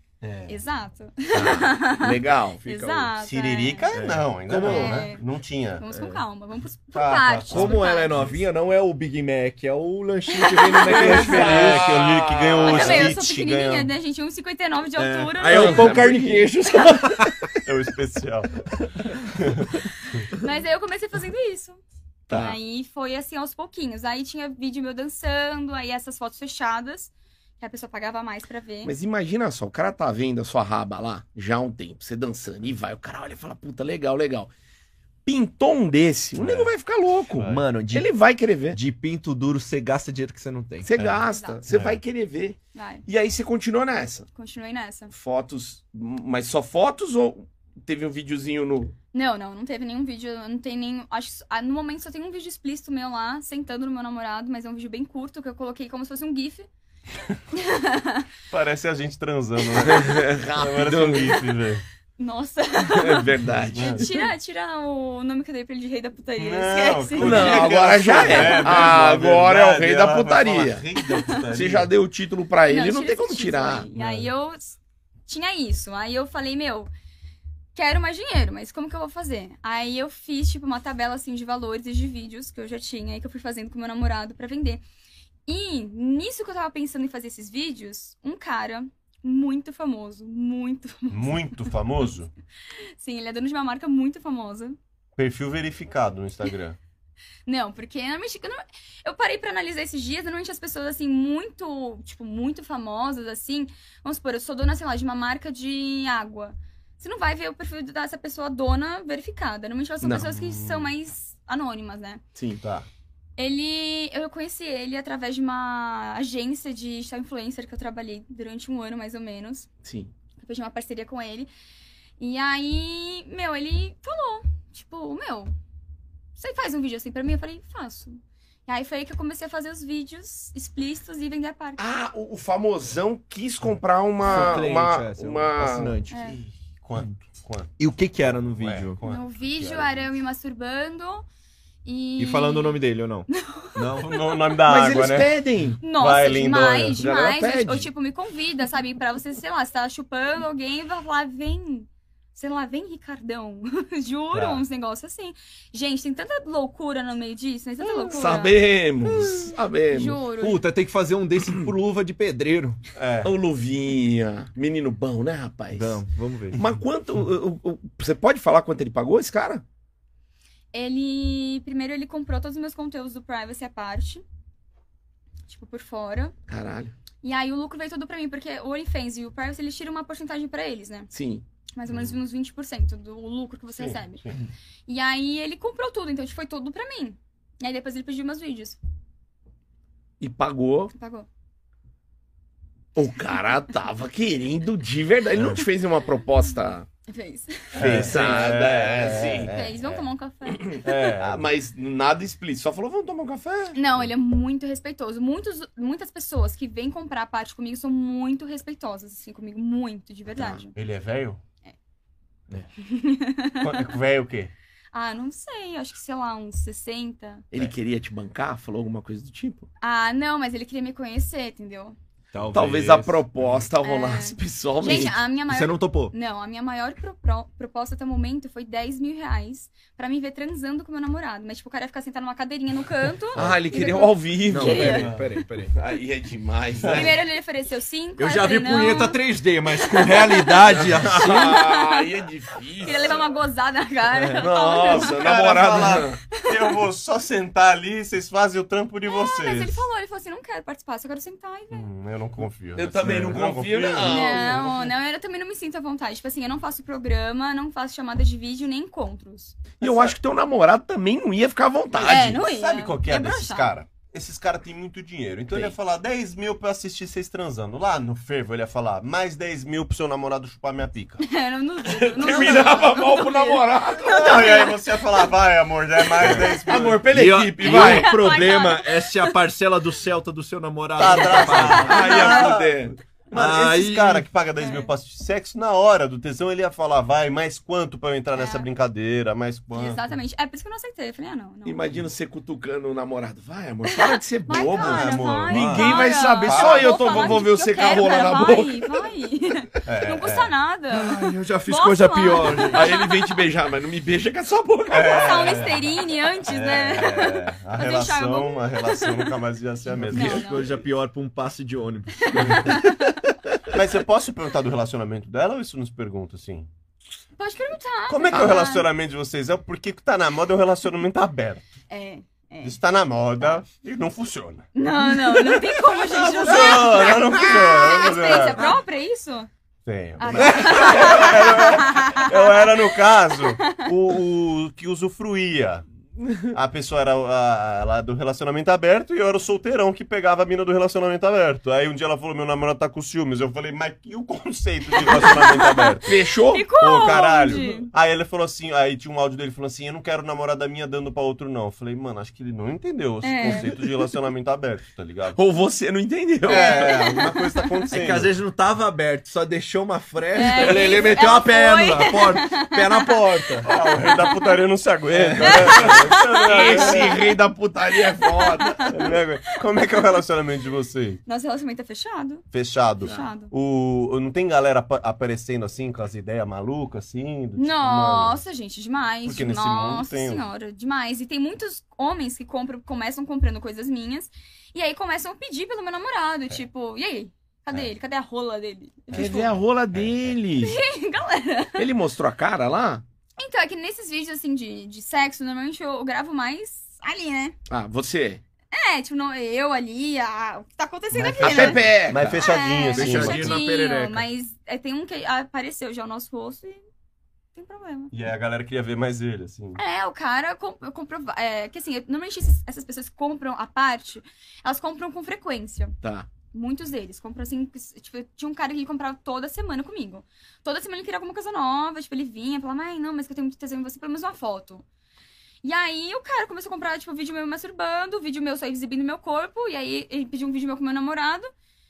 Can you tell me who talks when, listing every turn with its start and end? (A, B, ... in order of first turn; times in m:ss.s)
0:00.2-0:00.6 A
0:00.5-0:03.9 B
0:01.3-0:02.7 C
0:02.6-0:03.1 D
0:03.2-0:06.0 A
0:03.9-0:05.1 D
0:04.6-0:05.2 B
0:05.8-0:08.2 B
0:06.9-0:08.4 A
0:07.5-0:13.1 D
0:10.3-0:12.0 B
0:10.9-0:13.9 A
0:12.7-0:16.0 B
0:15.0-0:17.6 D
0:15.4-0:16.5 C
0:17.6-0:18.7 A
0:19.3-0:20.2 A
0:20.3-0:21.8 B
0:22.3-0:22.6 C
0:22.3-0:28.9 B
0:28.8-0:34.5 C
0:35.3-0:38.8 C
0:36.4-0:36.7 A
0:37.4-0:37.6 A
0:37.4-0:38.1 D
0:38.7-0:40.9 D
0:40.8-0:44.3 C
0:41.0-0:42.0 A
0:41.2-0:41.6 B
0:42.7-0:43.0 B
0:44.4-0:45.1 B
0:45.1-0:48.9 C
0:49.1-0:56.7 B
0:57.5-0:58.3 B
0:58.5-1:01.8 A
0:59.8-1:01.4 C
1:02.2-1:03.3 B
1:02.9-1:04.2 C
1:03.7-1:04.1 A
1:03.8-1:08.8 B
1:06.4-1:11.9 A
1:07.2-1:10.8 C
1:11.0-1:11.4 B
1:11.5-1:13.9 C
1:12.7-1:16.9 B
1:14.0-1:14.3 A
1:17.8-1:24.8 B
1:25.5-1:31.5 B
1:31.1-1:32.3 A
1:33.0-1:34.8 B
1:35.2-1:36.8 A
1:37.5-1:52.2 B
1:50.0-1:50.3 C
1:50.2-1:50.9 A
1:52.4-1:52.6 C
1:52.6-1:52.9 A
1:53.4-1:59.7 B
1:59.8-2:00.1 C
2:00.4-2:01.5 B
2:02.2-2:05.5 B
2:06.4-2:11.8 B
2:11.8-2:16.0 C
2:14.2-2:16.1 D
2:14.3-2:14.6 B
2:16.1-2:16.4 B
2:16.1-2:17.7 A
2:17.8-2:19.0 D
2:18.6-2:20.1 A
2:19.0-2:21.3 B
2:21.8-2:24.0 B
2:22.2-2:24.1 D
2:24.0-2:25.3 A
2:24.7-2:25.8 C
2:25.8-2:38.6 B
2:25.9-2:27.0 A
2:27.0-2:27.9 C
2:34.3-2:34.6 A
2:37.9-2:40.2 C
2:39.9-2:40.6 B
2:40.4-2:42.8 D
2:43.0-2:43.3 A
2:43.2-2:49.6 C
2:45.7-2:46.6 D
2:50.7-2:54.2 B
2:55.5-2:56.4 B
2:56.5-2:57.0 C
2:57.2-3:01.1 B
3:01.1-3:01.4 C
3:01.8-3:04.2 B
3:01.9-3:02.2 A
3:03.8-3:04.4 A
3:04.9-3:08.8 B
3:10.2-3:10.9 C
3:10.9-3:11.3 B
3:13.0-3:16.9 C
3:17.1-3:18.2 B
3:17.7-3:20.0 A
3:17.8-3:19.6 C
3:19.2-3:20.9 B
3:20.5-3:23.8 C
3:20.8-3:21.5 A
3:23.8-3:30.7 B
3:30.4-3:31.4 A
3:32.8-3:33.8 B
3:33.6-3:34.5 A
3:34.9-3:37.4 B
3:37.5-3:39.7 C
3:39.8-3:42.0 B
3:42.3-3:43.2 D
3:42.5-3:45.2 C
3:43.8-3:55.2 B
3:45.5-3:46.1 D
3:53.3-3:53.6 A
3:53.3-3:55.1 C
3:54.5-3:55.7 D
3:55.0-3:55.3 A
3:55.7-3:57.1 C
3:56.8-3:57.1 A
3:56.9-3:59.2 B
3:58.2-4:01.6 D
3:59.8-4:00.5 B
4:00.7-4:03.4 C
4:01.0-4:01.4 A
4:01.2-4:02.2 B
4:02.8-4:06.8 B
4:04.1-4:04.5 D
4:04.4-4:06.2 C
4:04.9-4:09.8 A
4:09.1-4:11.9 B
4:11.7-4:14.6 A
4:12.8-4:14.9 C
4:14.0-4:19.6 B
4:19.8-4:22.4 C
4:19.8-4:20.2 A
4:22.0-4:31.2 A
4:22.0-4:23.7 B
4:31.2-4:35.3 B
4:31.8-4:34.5 C
4:34.0-4:37.0 A
4:36.2-4:38.2 C
4:37.1-4:42.0 D
4:37.6-4:39.4 B
4:41.0-4:50.0 A
4:41.0-4:42.6 B
4:41.5-4:43.0 C
4:43.3-4:44.3 D
4:44.6-4:44.9 B
4:48.3-4:48.7 B
4:49.7-4:51.9 B
4:51.6-4:59.0 C
4:53.9-5:03.0 B
4:54.5-4:57.4 A
4:59.9-5:00.5 A
5:00.9-5:02.8 D
5:02.7-5:05.6 C
5:04.9-5:05.9 A
5:05.0-5:09.3 B
5:06.5-5:10.5 A
5:10.0-5:12.8 D
5:10.1-5:10.8 B
5:12.2-5:13.2 B
5:12.4-5:13.0 A
5:13.7-5:16.7 A
5:17.4-5:18.9 B
5:18.1-5:21.7 A
5:21.9-5:22.8 B
5:22.6-5:24.7 A
5:24.8-5:29.5 B
5:25.3-5:28.8 A
5:29.9-5:35.9 A
5:30.2-5:32.8 B
5:33.3-5:33.9 B
5:36.2-5:36.5 C
5:36.5-5:46.1 A
5:44.9-5:47.9 B
5:46.0-5:46.7 C
5:46.8-5:55.4 A
5:53.2-5:53.7 B
5:55.4-5:57.1 C
5:56.5-5:58.3 A
5:56.5-5:57.9 B
5:57.9-6:03.7 D
6:00.3-6:04.6 B
6:00.4-6:01.2 C
6:03.6-6:07.2 A
6:05.1-6:09.0 C
6:05.4-6:07.3 B
6:08.0-6:10.2 B
6:08.9-6:11.2 A
6:11.3-6:12.5 B
6:12.5-6:18.4 A
6:13.0-6:13.5 B
6:17.6-6:29.5 B
6:19.2-6:20.4 A
6:29.1-6:30.8 C
6:29.1-6:30.4 A
6:30.6-6:31.8 B
6:31.8-6:33.0 C
6:33.4-6:37.6 B
6:37.7-6:38.4 C
6:38.7-6:46.8 B
6:41.1-6:43.7 A
6:41.4-6:42.4 C
6:42.9-6:44.2 D
6:47.6-6:48.1 B
6:48.1-6:49.8 A
6:49.8-6:56.0 B
6:56.0-6:56.3 C
6:56.5-7:04.8 B
7:05.6-7:11.5 B